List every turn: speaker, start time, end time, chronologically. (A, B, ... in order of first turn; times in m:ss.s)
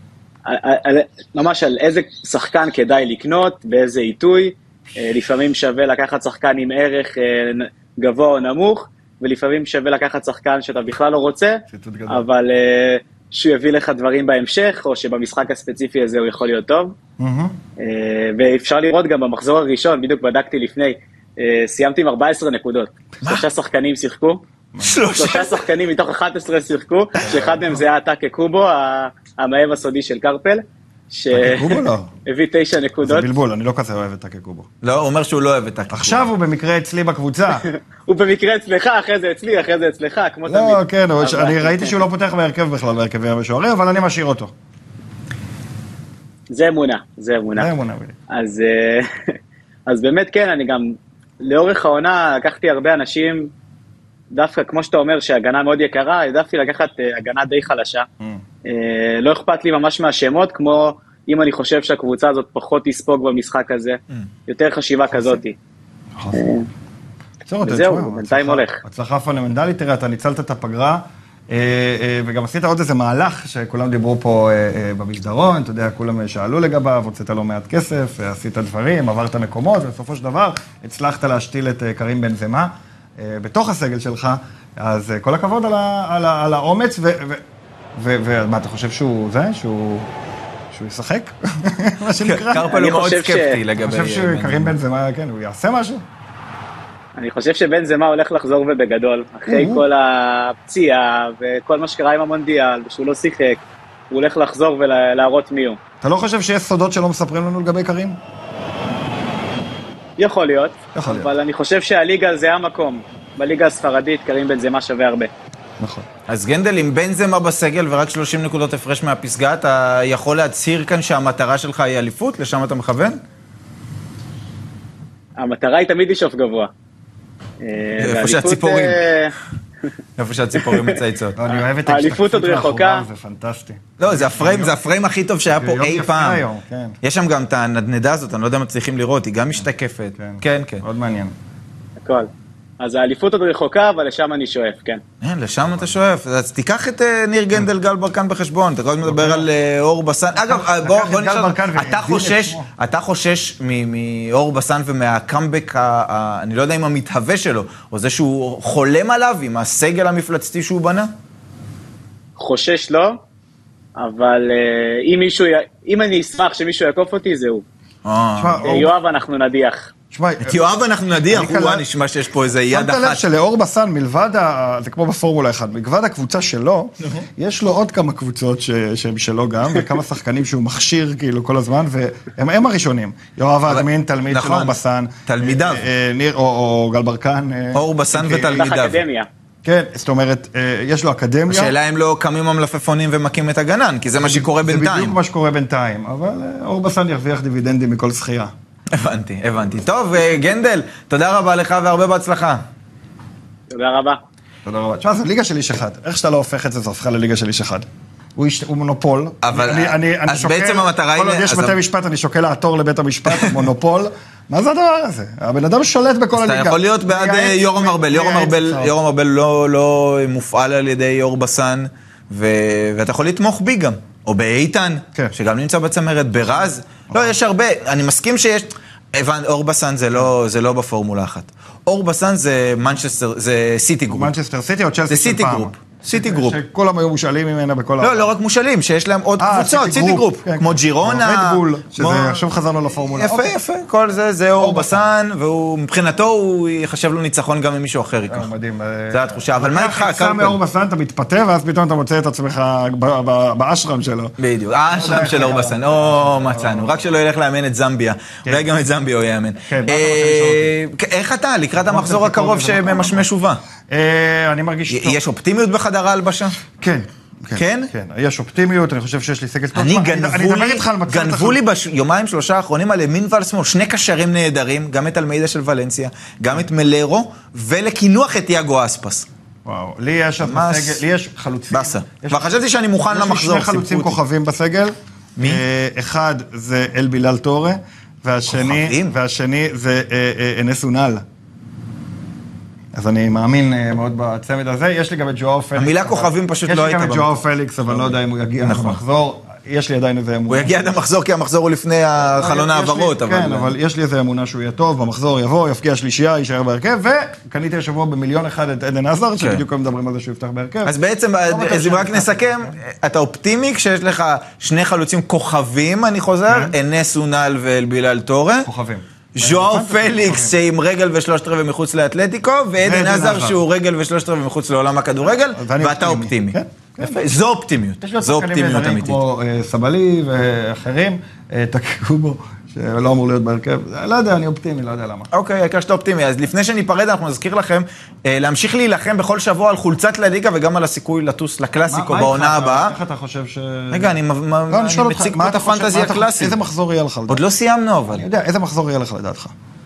0:00.4-0:16.9 A
0:11.7-0:12.2 B
0:17.2-0:17.5 B
0:17.8-0:24.4 A
0:24.7-0:25.0 B
0:24.8-0:25.6 C
0:25.1-0:33.3 A
0:27.2-0:27.8 B
0:31.3-0:32.1 B
0:33.0-0:34.7 B
0:34.8-0:36.3 C
0:35.9-0:37.6 B
0:37.6-0:41.9 A
0:40.5-0:44.5 B
0:46.5-0:47.7 A
0:47.6-0:48.1 B
0:48.3-0:49.3 A
0:49.9-0:53.5 A
0:54.3-0:58.1 A
0:58.6-1:05.5 A
1:05.1-1:05.4 B
1:06.2-1:06.5 B
1:06.3-1:06.7 A
1:07.4-1:27.4 B
1:07.6-1:08.8 A
1:28.0-1:30.1 B
1:30.7-1:32.7 B
1:32.2-1:34.7 C
1:32.7-1:33.6 A
1:33.8-1:36.0 B
1:37.2-1:43.6 A
1:39.5-1:39.8 B
1:44.1-1:45.8 A
1:46.0-1:48.2 B
1:50.2-1:55.3 A
1:50.9-1:51.3 B
1:55.8-1:56.0 B
1:56.3-2:03.2 C
2:05.4-2:06.7 A
2:07.6-2:09.4 A
2:08.0-2:09.0 C
2:10.2-2:11.4 C
2:10.6-2:13.0 A
2:11.4-2:14.8 B
2:14.0-2:16.4 C
2:15.5-2:17.0 B
2:17.0-2:20.8 C
2:20.2-2:21.3 B
2:22.0-2:25.0 A
2:25.2-2:41.1 C
2:29.0-2:29.5 B
2:30.3-2:32.7 B
2:42.4-2:43.2 A
2:44.0-2:47.6 A
2:48.0-2:48.8 C
2:48.4-2:48.9 B
2:48.6-2:49.9 A
2:50.1-2:50.6 B
2:50.4-2:53.2 C
2:51.3-2:51.8 B
2:52.7-3:08.7 B
3:03.7-3:05.8 C
3:07.7-3:09.0 C
3:08.5-3:09.3 A
3:09.6-3:11.7 B
3:11.5-3:15.2 C
3:14.2-3:18.5 B
3:18.9-3:22.6 C
3:23.7-3:24.2 A
3:24.6-3:38.9 B
3:29.4-3:31.8 C
3:33.3-3:33.5 C
3:36.4-3:54.3 C
3:54.1-3:58.3 B
3:55.1-3:56.6 C
3:58.0-4:02.4 C
3:59.4-4:03.5 B
4:03.1-4:08.5 C
4:04.6-4:05.1 B
4:08.3-4:14.3 B
4:09.1-4:10.6 C
4:14.4-4:23.6 C
4:14.9-4:17.0 B
4:19.6-4:20.7 B
4:21.8-4:23.3 B
4:23.9-4:25.2 B
4:24.9-4:26.6 C
4:26.8-4:31.6 B
4:27.5-4:27.9 C
4:29.7-4:39.3 C
4:39.6-4:51.2 B
4:40.4-4:41.0 C
4:41.7-4:44.2 C
4:45.4-4:45.6 C
4:48.5-4:49.1 C
4:52.9-5:00.7 B
4:55.8-4:59.0 C
5:00.5-5:03.7 C
5:02.3-5:10.9 B
5:09.4-5:09.6 C
5:10.8-5:18.7 C
5:11.5-5:12.7 B
5:16.5-5:16.7 B
5:18.6-5:20.6 B
5:19.3-5:29.2 C
5:22.8-5:23.6 B
5:25.4-5:27.2 B
5:28.0-5:35.3 B
5:35.3-5:42.9 C
5:41.9-5:44.2 B
5:43.9-5:46.6 C
5:44.7-5:47.4 B
5:47.3-5:48.2 C
5:48.1-5:49.5 B